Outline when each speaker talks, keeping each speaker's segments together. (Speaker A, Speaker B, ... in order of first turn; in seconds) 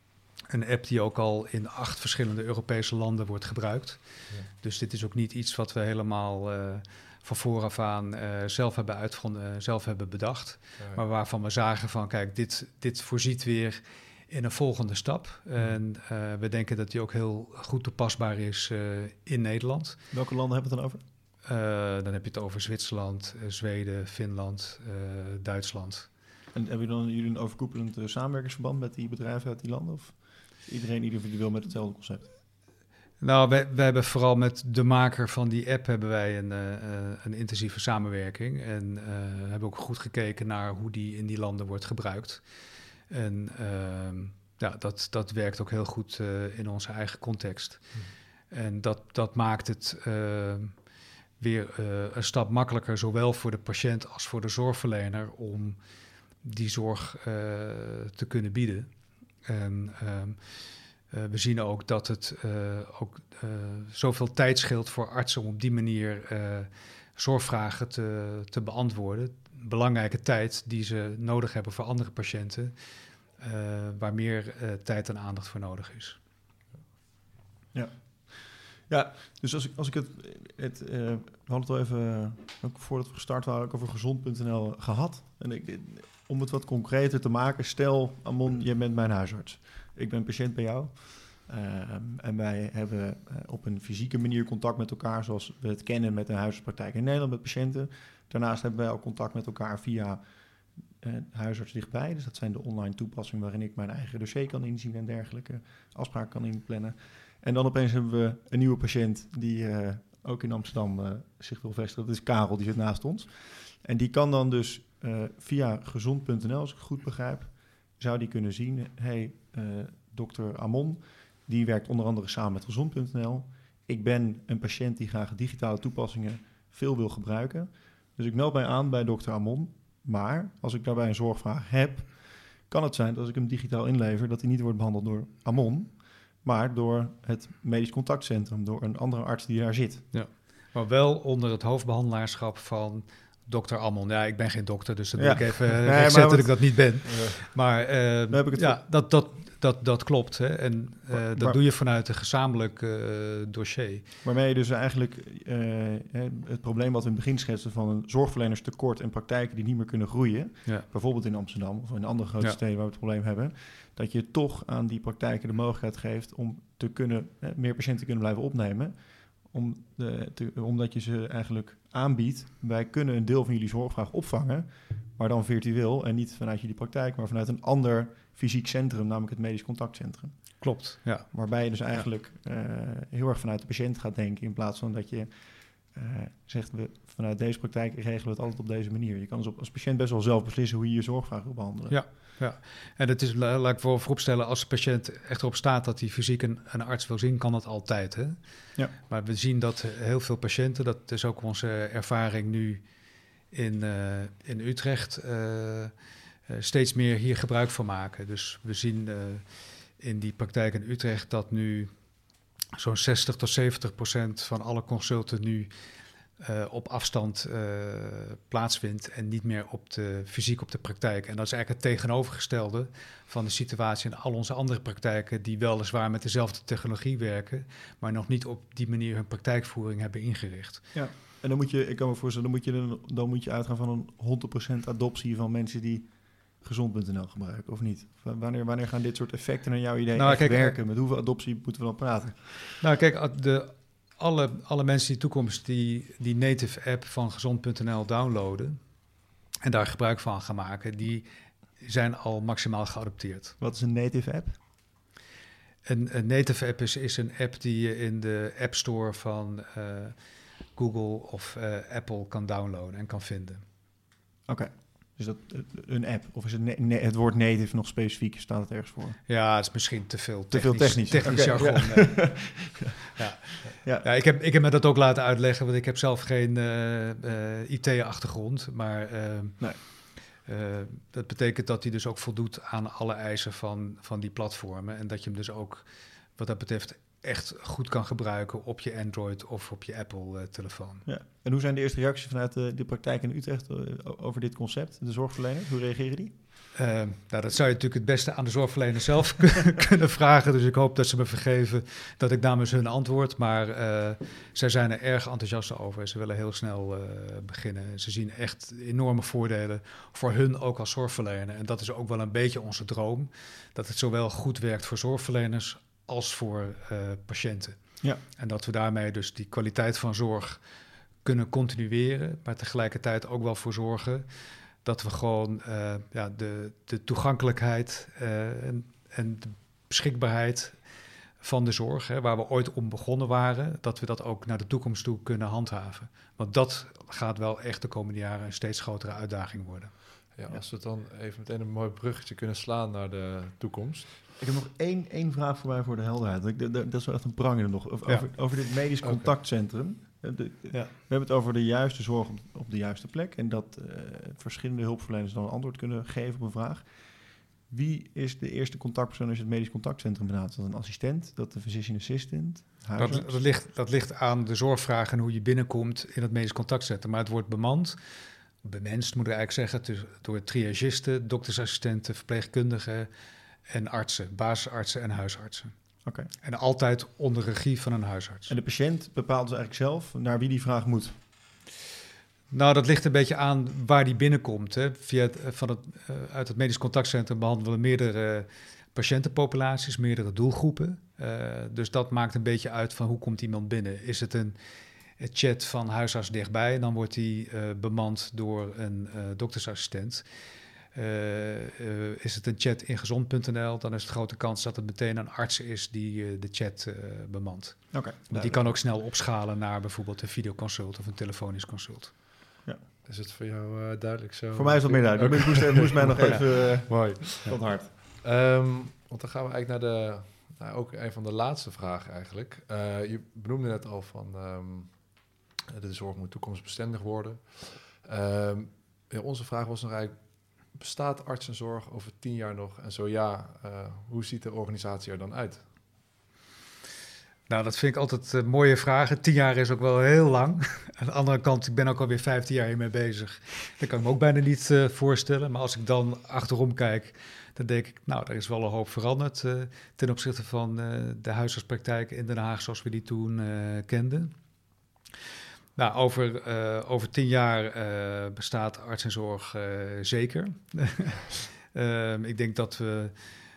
Speaker A: 0.5-20.0, 21.5-26.1, 33.2-42.4, 43.1-47.9, 48.5-50.8, 51.4-55.8, 56.4-58.9, 59.4-60.4, 61.1-72.7, 73.4-76.2, 140.1-154.0, 180.6-181.3, 191.9-198.4, 199.1-202.8, 203.5-205.9, 206.5-211.9, 212.8-215.7, 216.4-230.8, 240.1-240.8, 242.8-248.8, 249.6-251.3, 251.8-253.5, 255.8-260.1, 260.7-263.6, 269.3-279.9, 280.4-285.8, 286.4-291.0, 296.7-317.8, 318.4-320.6, 321.2-324.2, 324.8-330.7, 331.4-339.9, 363.0-367.9, 368.6-373.1, 373.7-375.7, 376.4-378.5, 382.5-394.6, 395.2-400.2, 400.9-412.1, 437.5-454.3, 455.8-463.1
Speaker B: 20.1-21.0, 26.5-32.2, 77.7-100.2, 101.0-140.1, 145.2-146.9, 148.3-148.8, 151.1-151.6, 154.2-168.9, 169.5-180.3, 181.3-185.3, 185.9-192.0, 230.9-242.7, 253.6-254.6, 264.5-269.2, 270.5-272.9, 273.8-274.1, 291.1-296.3, 344.4-356.9, 357.7-363.3, 376.0-376.3, 378.5-381.2, 407.9-408.7, 414.5-417.9
Speaker C: 147.1-147.4, 340.4-344.2, 349.0-349.3, 413.0-435.7